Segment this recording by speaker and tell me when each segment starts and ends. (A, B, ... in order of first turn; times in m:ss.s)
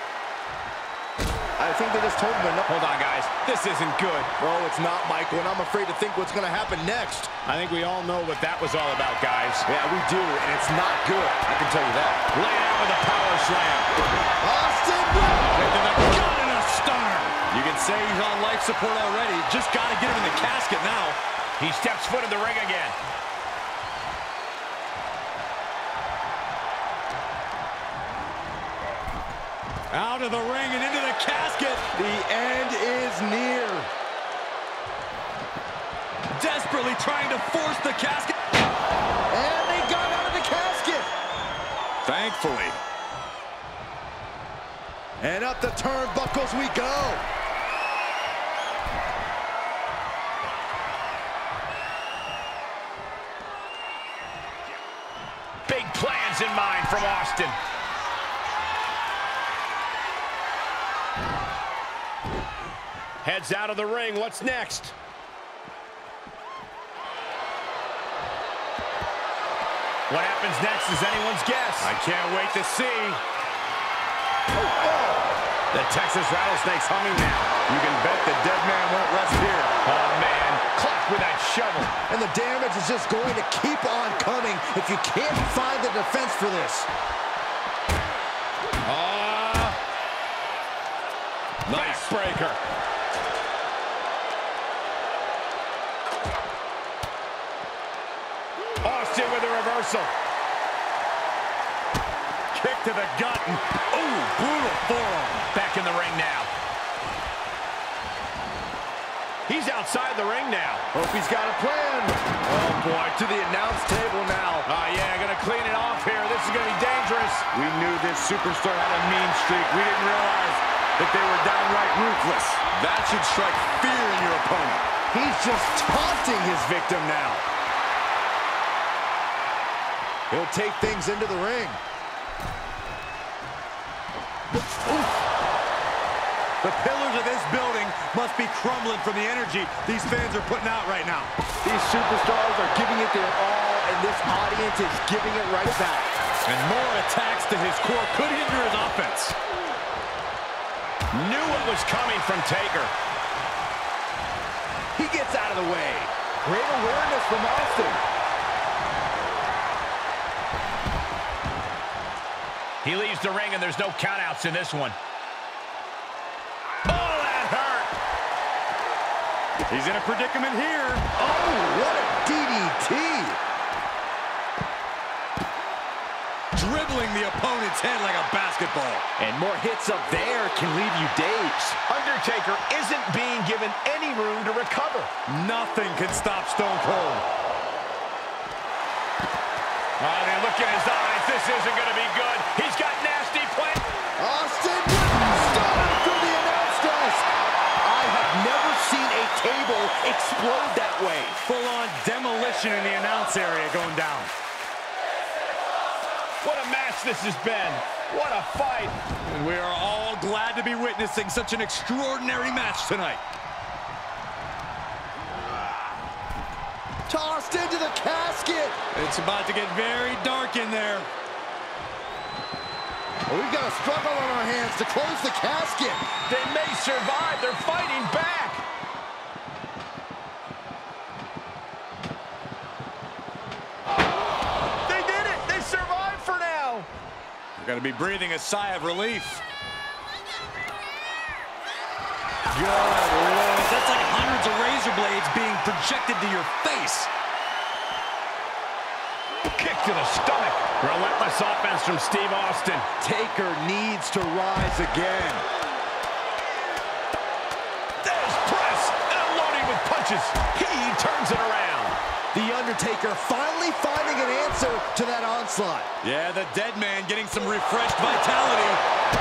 0:01.6-0:02.7 A
0:02.6-0:04.3 B
0:04.4-0:07.3 A
0:07.4-0:09.7 B
0:09.7-0:12.2 A
0:12.3-0:13.9 B
0:14.4-0:15.6 A
0:15.5-0:21.2 C
0:21.6-0:23.0 B
0:29.9-0:31.9 C
0:32.0-0:33.9 A
0:36.3-0:38.4 C
0:39.3-0:41.1 A
0:42.0-0:42.8 C
0:45.2-0:47.2 A
0:55.7-0:57.6 B
1:03.2-1:05.0 B
1:10.1-1:11.9 B
1:11.8-1:13.2 C
1:14.6-1:17.6 B
1:17.7-1:19.8 C
1:19.8-1:21.9 B
1:22.1-1:26.9 A
1:28.8-1:29.8 B
1:31.7-1:32.6 B
1:31.7-1:32.0 C
1:38.8-1:40.1 B
1:42.5-1:45.5 C
1:45.5-1:46.5 B
1:49.5-1:50.8 B
1:50.9-1:54.7 A
1:54.6-1:57.5 B
1:57.5-2:04.9 C
2:05.1-2:07.4 A
2:10.3-2:11.8 A
2:16.6-2:21.3 C
2:21.6-2:26.1 A
2:26.5-2:29.4 C
2:31.1-2:32.9 B
2:35.0-2:38.0 A
2:42.8-2:45.0 B
2:46.9-2:47.9 B
2:49.7-2:51.0 C
2:51.2-2:53.4 A
2:56.6-2:59.0 C
2:59.2-3:01.8 A
3:01.8-3:05.1 B
3:05.3-3:07.2 C
3:10.0-3:13.8 B
3:14.2-3:17.3 A
3:17.8-3:21.4 A
3:21.4-3:24.3 C
3:26.4-3:29.0 B
3:29.2-3:33.2 C
3:37.1-3:38.8 A
3:38.9-3:41.1 C
3:43.3-3:46.1 A
3:46.3-3:48.6 B
3:54.9-3:56.9 B
3:57.6-3:59.4 C
4:02.5-4:07.1 C
4:09.4-4:12.9 B
4:13.0-4:15.4 A
4:18.0-4:22.0 B
4:22.3-4:25.9 A
4:26.0-4:28.8 C